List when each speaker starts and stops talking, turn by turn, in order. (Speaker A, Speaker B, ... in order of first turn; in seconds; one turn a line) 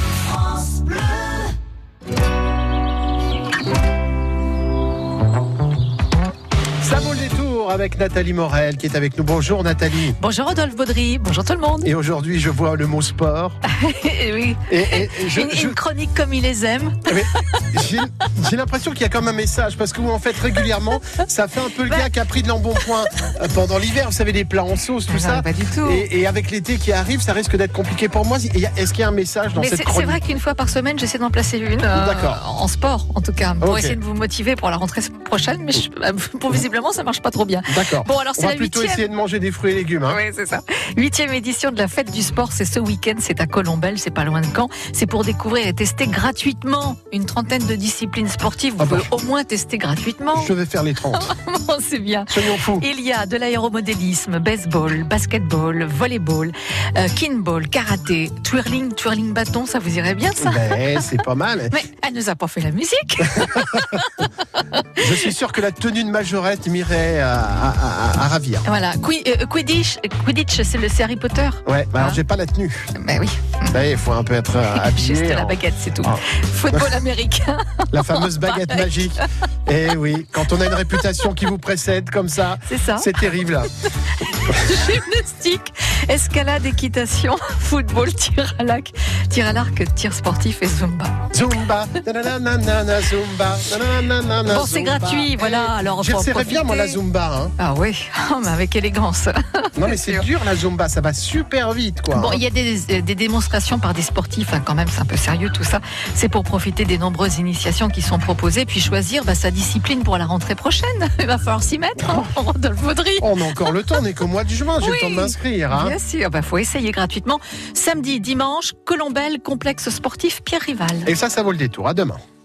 Speaker A: 6.8-10.2
Speaker B: 10.2-11.9
Speaker A: 11.8-13.6
Speaker B: 13.7-17.7
Speaker A: 14.7-15.8
Speaker A: 17.1-30.2
Speaker B: 21.8-22.1
Speaker B: 22.8-23.3
Speaker B: 25.1-26.1
Speaker B: 29.6-39.1
Speaker A: 31.9-32.4
Speaker A: 33.6-34.0
Speaker A: 37.7-40.2
Speaker B: 40.1-50.5
Speaker A: 48.8-49.1
Speaker A: 50.3-51.3
Speaker B: 51.1-61.1
Speaker A: 52.3-52.9
Speaker A: 60.4-61.8
Speaker B: 61.7-65.3
Speaker A: 63.2-64.1
Speaker A: 65.0-68.7
Speaker B: 68.7-72.2
Speaker A: 71.7-72.9
Speaker B: 73.0-73.8
Speaker A: 73.7-76.2
Speaker B: 74.7-79.2
Speaker A: 77.9-83.7
Speaker B: 80.5-81.0
Speaker B: 82.7-83.2
Speaker B: 84.2-91.2
Speaker A: 84.5-84.9
Speaker A: 91.3-97.5
Speaker B: 94.5-97.0
Speaker B: 97.6-100.3
Speaker A: 99.8-102.4
Speaker B: 102.1-114.0
Speaker A: 113.2-116.0
Speaker B: 114.8-121.1
Speaker A: 121.0-122.2